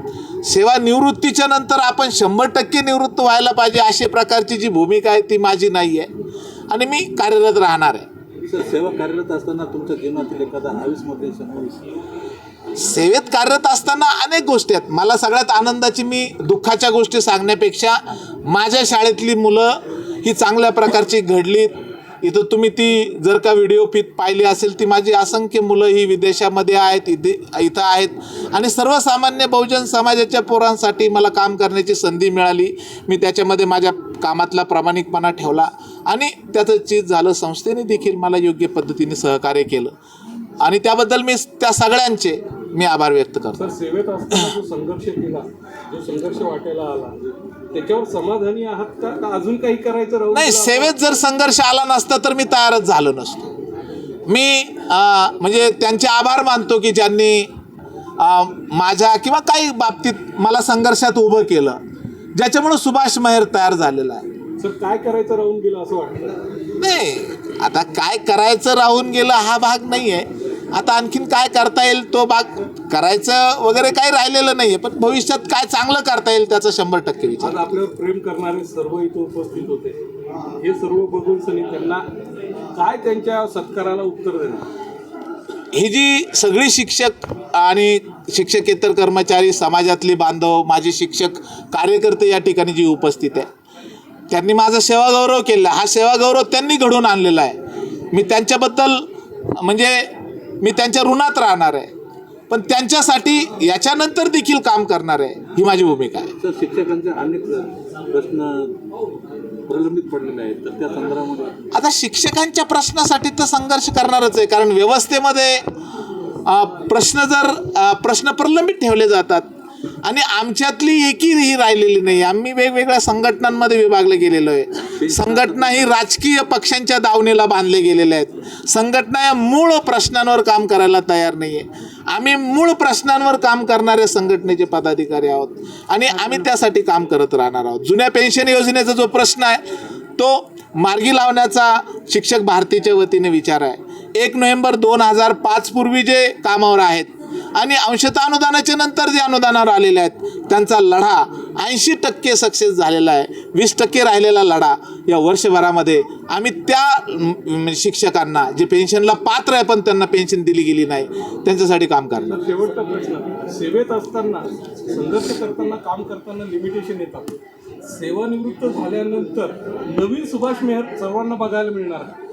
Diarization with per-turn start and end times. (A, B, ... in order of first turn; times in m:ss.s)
0:00.4-0:06.1 A
0:06.7-0:08.1 A
0:08.4-0:11.8 B
0:12.7-0:39.9 A
0:40.6-0:43.7 A
0:43.6-0:51.0 C
0:50.3-0:53.5 A
0:54.3-0:57.5 A
0:58.2-1:01.8 A
1:02.3-1:04.2 A
1:04.6-1:06.4 C
1:06.8-1:17.6 A
1:17.4-1:20.0 C
1:20.6-1:22.0 C
1:22.7-1:24.7 C
1:25.7-1:33.5 A
1:34.3-1:37.6 A
1:38.1-1:41.9 A
1:42.5-1:46.3 A
1:46.4-1:48.7 B
1:49.7-1:51.6 B
1:51.7-1:55.6 A
1:56.4-1:59.4 A
2:00.0-2:42.4 A
2:05.0-2:05.8 B
2:42.3-2:52.1 C